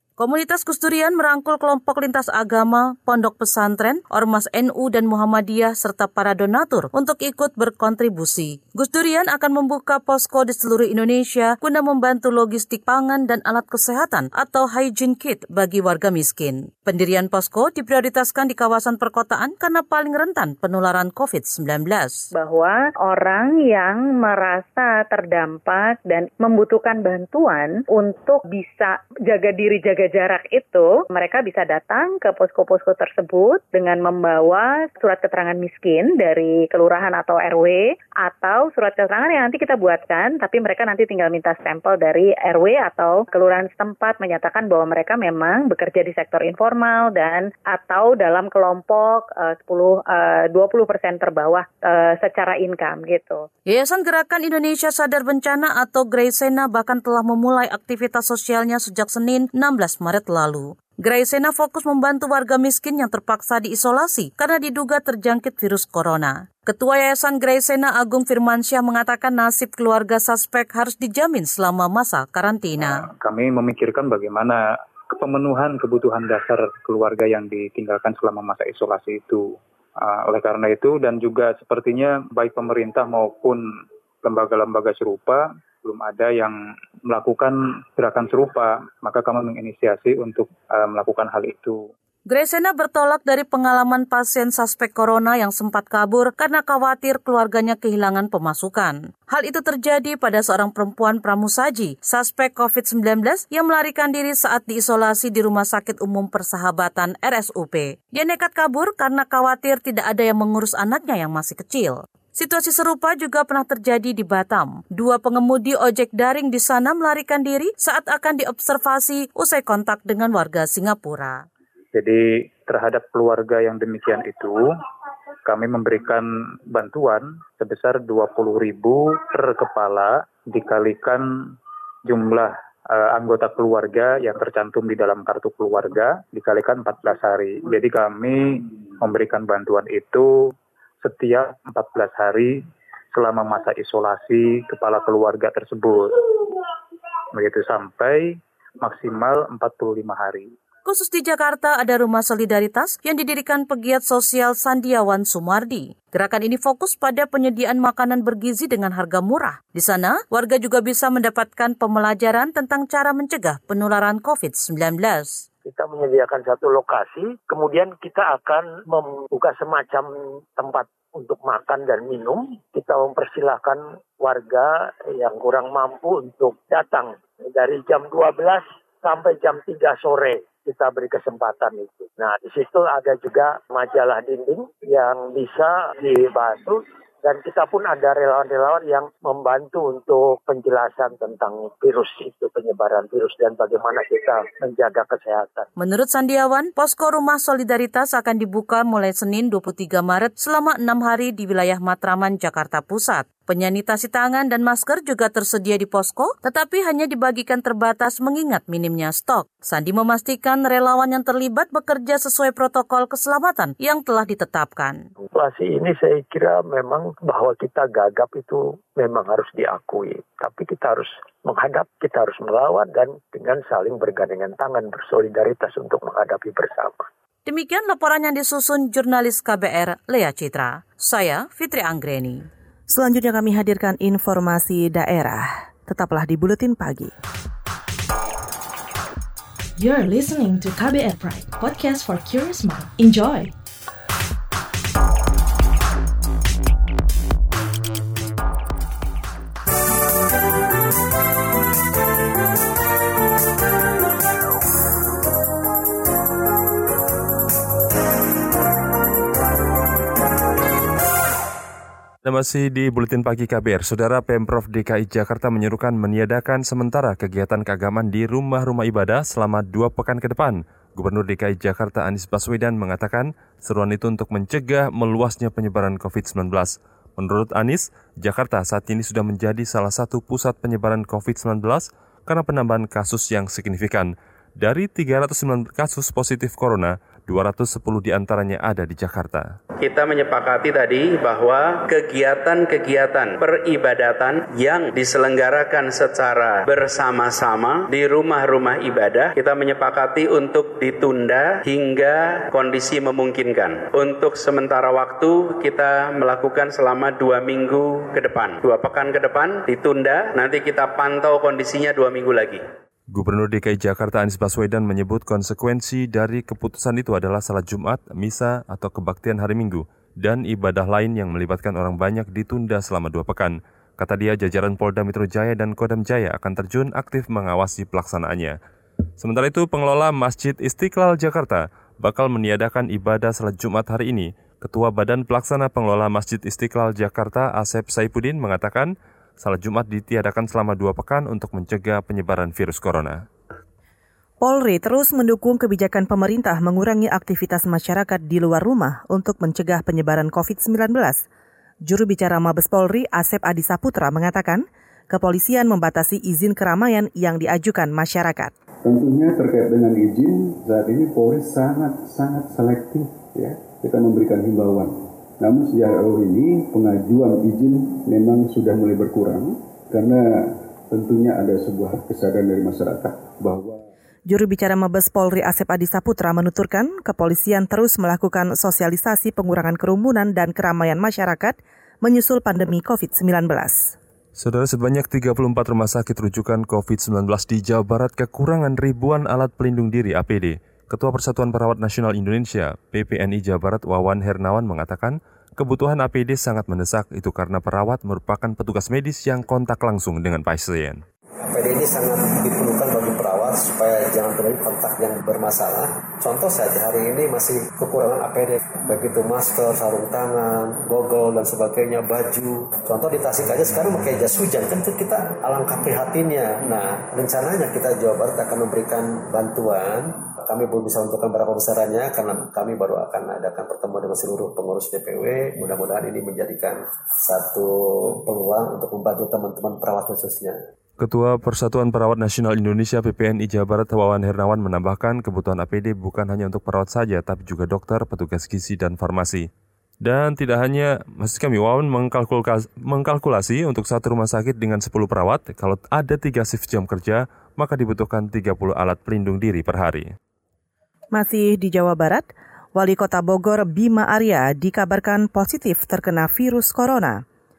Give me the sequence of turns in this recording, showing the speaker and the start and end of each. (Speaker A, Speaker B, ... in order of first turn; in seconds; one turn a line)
Speaker A: 0.2-22.2
Speaker B: 22.4-53.5
Speaker A: 53.7-73.0
Speaker C: 73.0-83.6
Speaker C: 84.2-91.9
Speaker A: 92.3-121.4
Speaker C: 121.9-124.6
Speaker C: 125.5-131.3
Speaker C: 132.1-140.3
Speaker C: 141.0-142.6
Speaker C: 143.1-146.3
Speaker C: 147.3-150.5
Speaker A: 150.8-165.4
Speaker D: 165.6-195.7
Speaker A: 195.8-215.0
Speaker D: 215.3-227.1
Speaker A: 227.4-232.4
Speaker E: 232.9-237.1
Speaker F: 239.8-243.5
Speaker G: 262.2-289.5
Speaker H: 289.8-312.6
Speaker G: 313.1-328.6
Speaker G: 329.2-343.2
Speaker E: 344.4-351.2
Speaker E: 351.8-358.5
Speaker I: 358.8-373.8
Speaker E: 374.3-383.9
Speaker G: 384.4-401.0
Speaker J: 401.5-430.6
Speaker G: 431.0-439.5
Speaker G: 440.0-450.1
Speaker E: 451.1-457.2